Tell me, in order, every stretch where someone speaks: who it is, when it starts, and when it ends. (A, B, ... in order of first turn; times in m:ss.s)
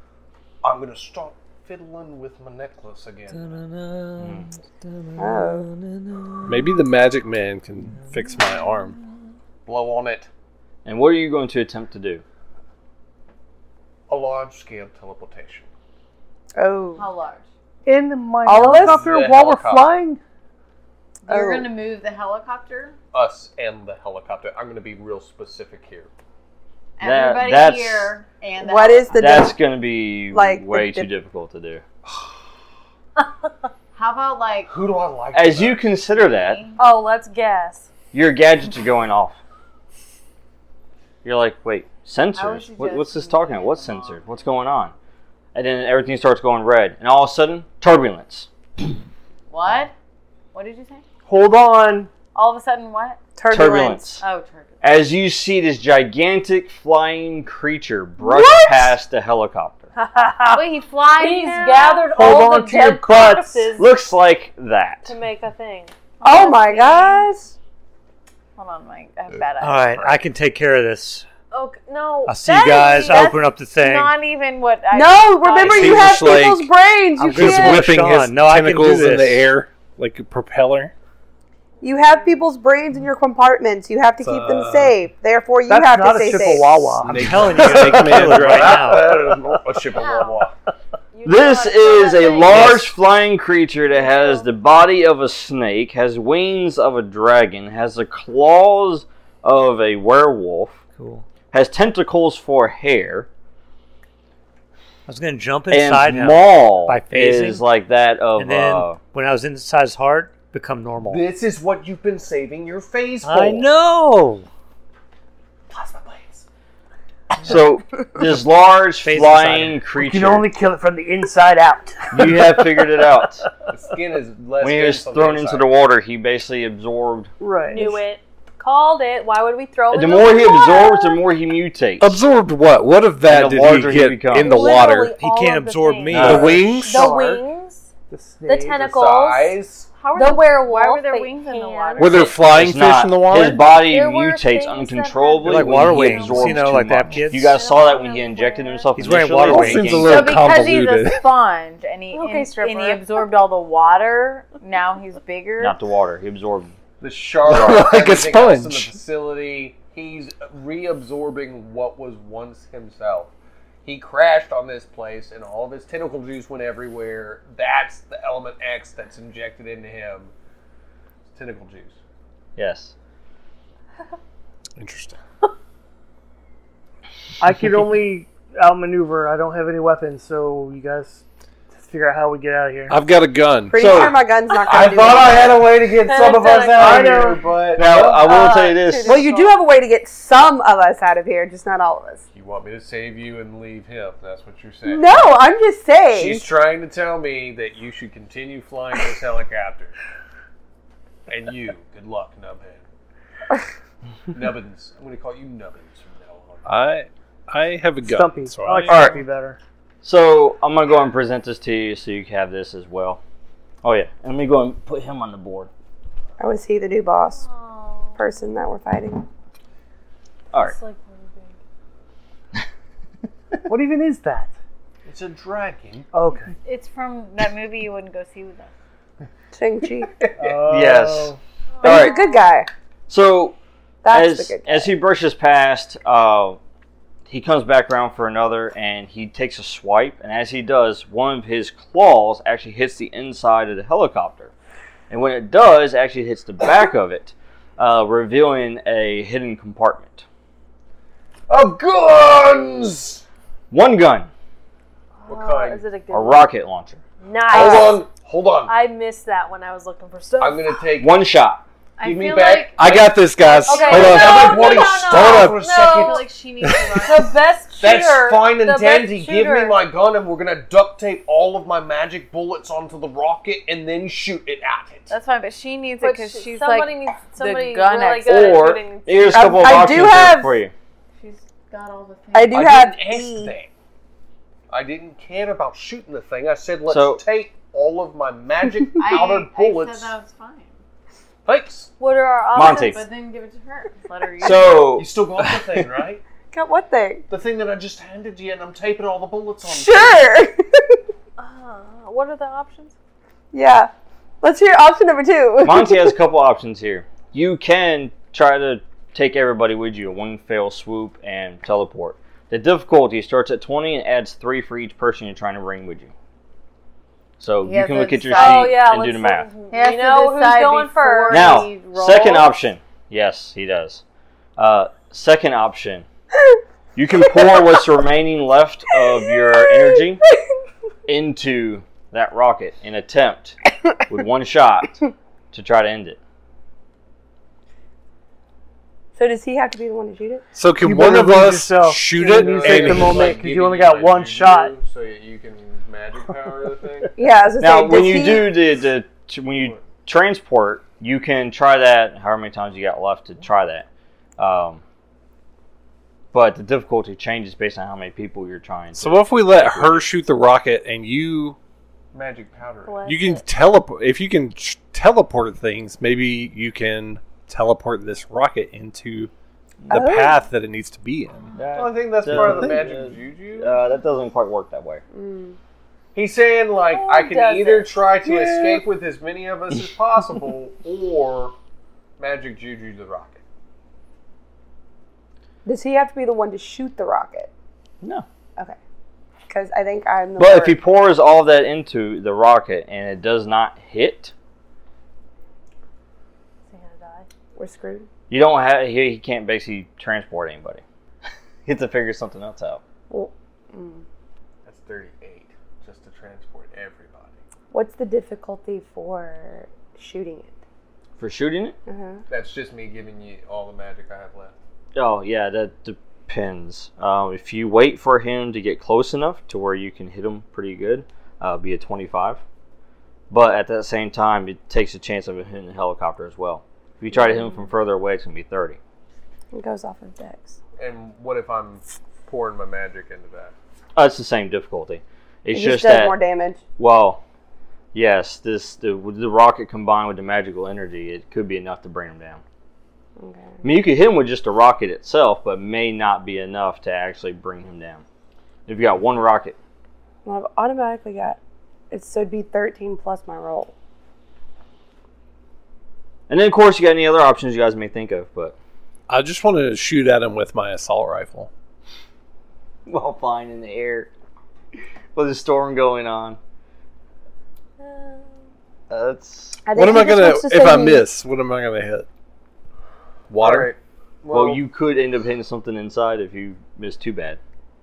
0:00.6-0:03.6 A
0:03.3-0:06.9 B
0:04.2-0:04.5 C
0:05.2-0:05.7 D
0:06.5-0:09.0 E
0:07.9-0:09.0 B
0:09.7-0:10.3 A
0:10.8-0:12.2 C
0:14.1-0:15.7 A
0:16.6-0:17.1 D
0:17.0-0:17.4 F
0:17.8-0:20.2 G
0:18.4-0:19.1 D
0:18.5-0:19.9 A
0:21.3-0:23.0 F
0:21.3-0:21.7 D
0:23.1-0:26.1 A
0:27.0-0:29.5 F
0:27.0-0:28.2 C
0:28.6-0:29.6 D
0:29.2-0:31.8 C
0:30.3-0:31.1 D
0:32.1-0:32.3 A
0:34.0-0:34.7 F
0:34.7-0:36.0 A
0:35.3-0:36.6 C
0:36.2-0:36.8 F
0:36.8-0:37.9 H
0:38.1-0:39.4 C
0:41.2-0:44.9 C
0:42.3-0:44.2 F
0:45.5-0:48.5 C
0:49.5-0:49.9 F
0:50.5-0:51.0 F
0:51.3-0:52.1 G
0:52.3-0:53.2 F
0:53.4-0:54.0 D
0:53.5-0:54.2 C
0:54.2-0:54.8 F
0:54.8-0:59.9 C
0:58.2-0:59.0 D
1:00.2-1:00.6 G
1:00.5-1:02.1 F
1:01.2-1:03.9 H
1:02.1-1:03.8 G
1:03.8-1:05.1 C
1:05.0-1:05.9 H
1:06.2-1:07.3 F
1:06.2-1:07.5 D
1:08.6-1:10.2 F
1:09.6-1:11.3 B
1:11.5-1:13.4 H
1:12.3-1:14.2 B
1:13.0-1:16.3 F
1:14.9-1:17.9 D
1:15.6-1:16.7 E
1:17.2-1:19.5 B
1:17.3-1:20.9 E
1:21.8-1:22.3 H
1:21.8-1:26.8 D
1:24.2-1:25.0 E
1:25.7-1:27.6 G
1:27.0-1:29.0 E
1:27.0-1:29.4 B
1:28.2-1:30.6 A
1:30.0-1:30.3 F
1:30.0-1:30.3 H
1:31.1-1:32.8 H
1:31.2-1:40.8 C
1:32.5-1:32.8 E
1:33.9-1:34.4 H
1:41.0-1:41.2 B
1:41.5-1:43.3 C
1:45.1-1:47.6 B
1:45.7-1:49.0 C
1:48.4-1:51.3 B
1:51.1-1:53.7 A
1:53.2-1:54.5 B
1:55.7-1:56.4 A
1:57.4-2:00.5 C
1:59.0-1:59.8 B
2:00.0-2:02.8 G
2:02.1-2:03.5 C
2:03.7-2:05.7 A
2:04.6-2:07.3 C
2:07.4-2:08.0 G
2:07.7-2:11.2 H
2:09.9-2:12.2 C
2:12.0-2:15.2 E
2:13.2-2:14.6 C
2:14.4-2:17.9 H
2:14.6-2:16.7 B
2:16.1-2:17.2 E
2:16.2-2:17.4 G
2:18.1-2:19.0 G
2:18.5-2:19.6 H
2:18.8-2:19.9 A
2:20.0-2:22.4 F
2:20.1-2:22.3 H
2:22.0-2:23.7 E
2:22.4-2:30.4 C
2:23.8-2:28.9 H
2:25.4-2:27.6 B
2:27.6-2:28.0 F
2:29.0-2:30.1 B
2:29.4-2:31.3 E
2:30.1-2:35.8 F
2:32.1-2:33.0 H
2:35.6-2:36.7 C
2:37.0-2:43.3 A
2:37.5-2:38.9 E
2:43.8-2:50.3 A
2:51.3-2:52.0 A
2:52.6-2:52.9 C
2:54.8-2:55.2 E
2:57.4-3:03.0 G
3:02.9-3:04.2 E
3:03.7-3:05.7 D
3:03.8-3:04.2 C
3:04.6-3:08.5 A
3:06.0-3:07.3 H
3:06.7-3:07.4 G
3:07.8-3:09.3 C
3:08.2-3:09.6 H
3:09.0-3:12.2 D
3:12.3-3:15.3 A
3:14.9-3:16.5 D
3:16.1-3:19.9 A
3:21.3-3:22.8 A
3:24.3-3:26.8 A
3:26.7-3:29.2 E
3:28.0-3:29.6 G
3:28.9-3:29.2 C
3:30.0-3:33.2 C
3:33.8-3:35.7 C
3:36.4-3:37.4 D
3:37.3-3:38.3 H
3:38.2-3:39.2 D
3:40.6-3:41.6 H
3:43.7-3:44.5 G
3:45.0-3:46.1 A
3:46.1-3:46.6 G
3:46.6-3:48.7 F
3:49.5-3:50.1 D
3:50.1-3:50.9 A
3:50.4-3:51.4 G
3:50.7-3:52.2 C
3:51.8-3:52.5 H
3:51.8-3:52.7 D
3:53.1-3:53.6 C
3:54.0-3:54.9 D
3:54.1-3:56.6 C
3:57.3-4:04.5 C
4:05.1-4:10.2 C
4:11.5-4:13.2 A
4:13.7-4:14.3 C
4:15.2-4:16.5 H
4:15.3-4:15.8 A
4:16.1-4:17.0 C
4:17.2-4:18.0 H
4:17.5-4:18.7 A
4:17.5-4:17.9 D
4:18.7-4:20.8 H
4:20.4-4:21.2 A
4:21.0-4:21.6 C
4:22.0-4:24.5 F
4:22.0-4:26.3 A
4:22.8-4:25.6 E
4:23.7-4:26.3 H
4:25.8-4:27.3 F
4:26.6-4:27.0 E
4:27.0-4:29.8 H
4:27.8-4:35.1 A
4:35.1-4:38.7 F
4:36.0-4:39.8 H
4:38.2-4:40.7 C
4:39.3-4:40.6 D
4:41.2-4:42.8 F
4:42.3-4:43.5 D
4:42.5-4:43.7 A
4:44.7-4:50.1 A
4:46.9-4:47.2 C
4:49.0-4:50.8 F
4:51.4-4:51.9 A
4:52.0-4:53.0 H
4:52.5-4:53.0 C
4:52.6-4:54.8 F
4:54.4-4:55.9 C
4:54.5-4:56.2 A
4:56.5-4:57.3 D
4:57.3-5:00.4 A
4:59.6-5:01.0 D
5:01.4-5:03.0 H
5:03.5-5:06.2 D
5:05.6-5:16.1 C
5:17.4-5:19.5 C
5:17.6-5:18.8 F
5:18.3-5:21.7 H
5:19.7-5:22.5 F
5:21.3-5:24.0 C
5:24.6-5:26.1 C
5:27.0-5:30.2 C
5:29.4-5:30.0 D
5:31.1-5:35.0 C
5:35.5-5:36.2 C
5:39.2-5:40.5 D
5:40.6-5:43.4 E
5:40.8-5:44.8 G
5:42.2-5:47.1 A
5:47.2-5:48.6 D
5:47.6-5:53.9 C
5:54.4-5:54.8 C
5:56.3-6:00.1 C
5:59.0-6:01.6 E
6:02.1-6:03.2 A
6:02.8-6:03.4 H
6:03.0-6:09.3 E
6:09.9-6:11.6 E
6:09.9-6:10.4 D
6:11.6-6:15.0 C
6:11.7-6:13.9 A
6:12.3-6:12.6 E
6:15.1-6:15.6 D
6:16.2-6:21.6 A
6:16.9-6:18.0 H
6:22.2-6:23.4 A
6:25.6-6:27.5 D
6:29.5-6:30.8 D
6:30.4-6:34.3 C
6:36.7-6:37.3 H
6:37.6-6:38.1 D
6:38.3-6:40.8 C
6:41.7-6:42.8 C
6:43.1-6:44.0 D
6:44.6-6:47.3 A
6:47.7-6:50.6 D
6:51.2-6:51.8 C
6:51.9-6:52.2 D
6:52.3-6:54.5 A
6:55.0-7:02.4 C
7:03.3-7:08.8 C
7:07.1-7:07.6 D
7:09.5-7:10.6 D
7:10.8-7:13.5 A
7:14.0-7:16.2 C
7:15.5-7:16.6 D
7:16.8-7:17.2 C
7:17.9-7:22.4 C
7:23.2-7:23.6 D
7:23.6-7:28.0 C
7:28.7-7:29.6 C
7:30.2-7:31.4 D
7:31.9-7:33.7 D
7:36.3-7:38.6 C
7:39.1-7:41.5 E
7:42.9-7:44.1 C
7:45.2-7:46.4 C
7:47.8-7:48.3 H
7:48.9-7:49.6 C
7:49.7-7:51.0 D
7:49.7-7:52.1 E
7:53.3-7:53.7 E
7:53.4-7:54.6 A
7:54.3-7:57.4 C